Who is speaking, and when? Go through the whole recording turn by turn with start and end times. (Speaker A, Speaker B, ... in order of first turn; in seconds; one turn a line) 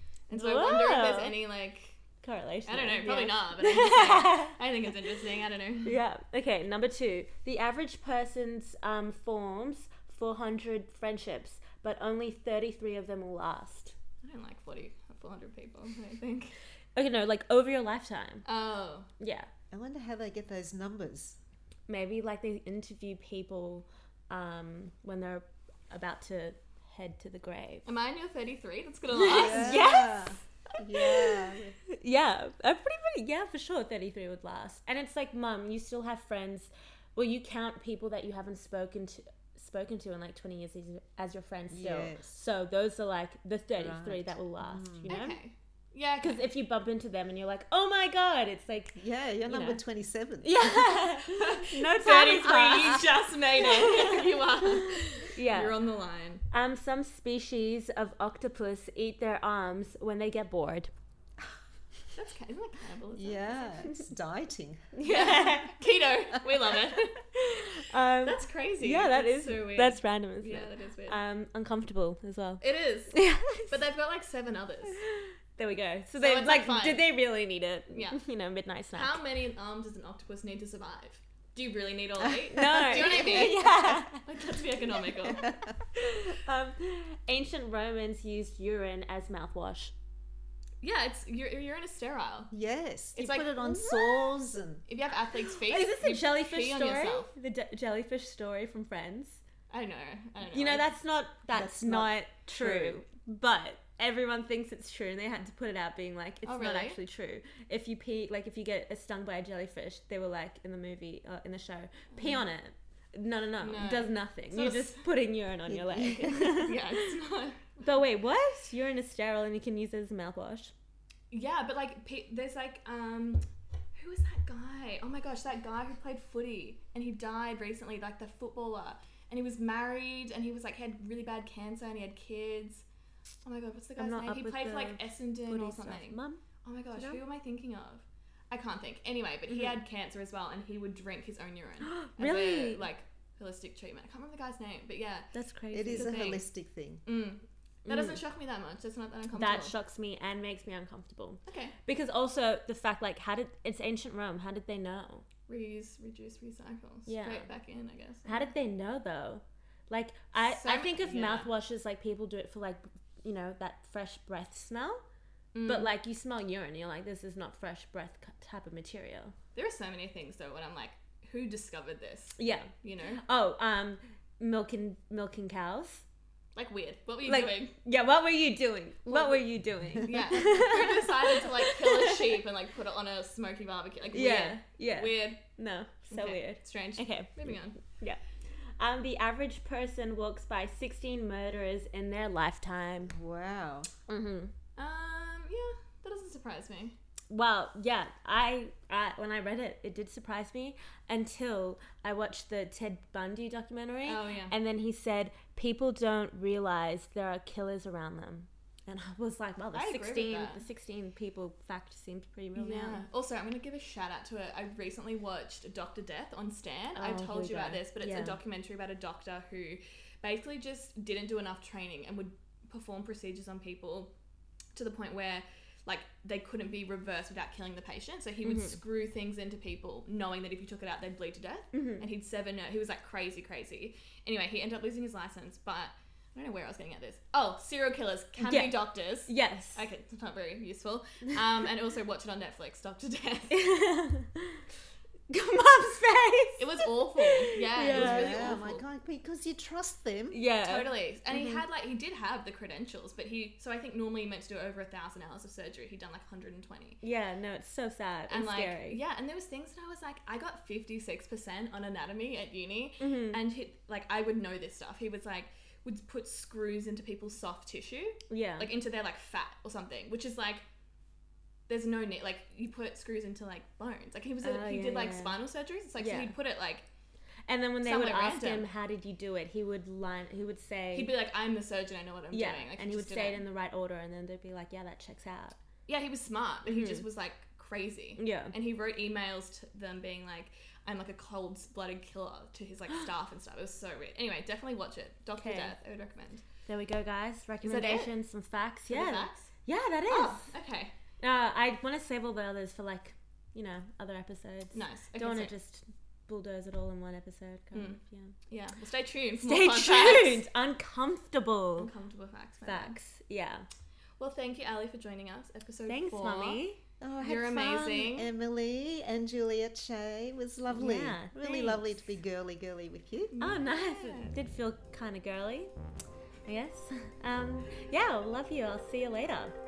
Speaker A: 0.3-1.9
Speaker B: 0.3-1.3
Speaker B: 2.2-4.6
Speaker A: 2.7-6.0
Speaker B: 5.8-13.9
Speaker A: 14.2-16.6
Speaker B: 16.9-18.4
Speaker A: 18.4-19.1
Speaker B: 19.2-19.5
Speaker C: 19.7-21.4
Speaker B: 21.9-27.9
Speaker A: 27.9-29.9
Speaker B: 29.1-30.3
Speaker C: 29.2-31.8
Speaker B: 31.9-45.4
Speaker C: 41.7-42.4
Speaker C: 43.8-45.1
Speaker A: 45.0-46.4
Speaker B: 46.2-49.8
Speaker C: 49.0-50.8
Speaker B: 50.4-55.8
Speaker A: 51.3-56.4
Speaker B: 56.5-60.9
Speaker A: 62.1-63.9
Speaker C: 63.1-65.0
Speaker B: 64.9-65.8
Speaker A: 65.0-67.2
Speaker B: 67.3-73.7
Speaker A: 68.2-71.2
Speaker A: 72.6-75.0
Speaker B: 74.9-79.2
Speaker A: 76.2-77.1
Speaker A: 77.9-78.2
Speaker A: 78.9-85.5
Speaker C: 82.4-83.6
Speaker B: 82.5-84.2
Speaker C: 85.2-85.7
Speaker B: 86.0-89.9
Speaker A: 90.8-92.5
Speaker C: 92.5-94.8
Speaker A: 93.2-94.0
Speaker A: 94.9-97.3
Speaker B: 95.7-99.4
Speaker A: 99.7-100.9
Speaker B: 100.5-117.1
Speaker C: 101.5-102.1
Speaker A: 102.6-102.9
Speaker A: 106.4-107.0
Speaker A: 113.6-115.0
Speaker C: 115.7-116.7
Speaker A: 116.5-117.8
Speaker B: 117.8-120.7
Speaker A: 121.3-132.8
Speaker A: 133.4-145.3
Speaker B: 134.0-136.4
Speaker B: 136.9-137.2
Speaker B: 141.8-142.9
Speaker B: 145.3-146.1
Speaker C: 145.7-147.0
Speaker A: 145.9-146.4
Speaker A: 147.1-149.7
Speaker B: 147.9-148.2
Speaker B: 149.3-155.2
Speaker A: 151.4-151.8
Speaker A: 155.5-158.5
Speaker B: 157.1-157.5
Speaker B: 158.2-165.0
Speaker A: 160.4-161.5
Speaker A: 165.5-165.9
Speaker B: 165.6-169.3
Speaker A: 169.5-173.2
Speaker B: 172.4-176.0
Speaker A: 176.6-177.7
Speaker B: 177.2-182.2
Speaker A: 179.1-179.4
Speaker A: 180.0-185.4
Speaker B: 184.1-188.2
Speaker A: 186.1-187.8
Speaker B: 188.8-193.1
Speaker C: 193.1-193.9
Speaker B: 194.1-194.5
Speaker A: 194.8-196.9
Speaker B: 197.3-213.0
Speaker A: 204.1-204.5
Speaker A: 209.7-210.6
Speaker A: 212.5-224.1
Speaker B: 216.9-218.4
Speaker A: 224.7-243.7
Speaker B: 228.4-228.8
Speaker B: 231.7-232.0
Speaker B: 238.4-239.9
Speaker B: 243.5-244.6
Speaker B: 245.3-248.6
Speaker A: 246.6-248.8
Speaker C: 247.9-250.4
Speaker B: 250.3-251.6
Speaker A: 250.6-257.0
Speaker B: 257.0-259.0
Speaker A: 258.3-270.6
Speaker B: 263.0-263.4
Speaker B: 268.3-268.7
Speaker A: 271.7-276.9
Speaker B: 274.4-275.4
Speaker B: 276.0-276.3
Speaker B: 277.5-281.1
Speaker A: 277.8-278.7
Speaker A: 280.9-283.4
Speaker B: 282.3-285.6
Speaker A: 285.9-296.4
Speaker B: 286.6-287.0
Speaker B: 288.2-288.5
Speaker B: 295.4-295.7
Speaker B: 296.7-300.5
Speaker A: 297.6-298.1
Speaker A: 298.9-299.5
Speaker A: 300.1-300.9
Speaker B: 301.2-308.3
Speaker A: 304.7-305.5
Speaker A: 307.7-310.4
Speaker B: 309.4-311.9
Speaker A: 311.8-313.0
Speaker B: 312.6-313.7
Speaker A: 314.2-316.6
Speaker B: 315.9-316.8
Speaker C: 317.0-323.4
Speaker A: 317.2-318.3
Speaker B: 320.7-321.9
Speaker A: 323.3-324.4
Speaker B: 323.4-325.7
Speaker B: 326.5-329.5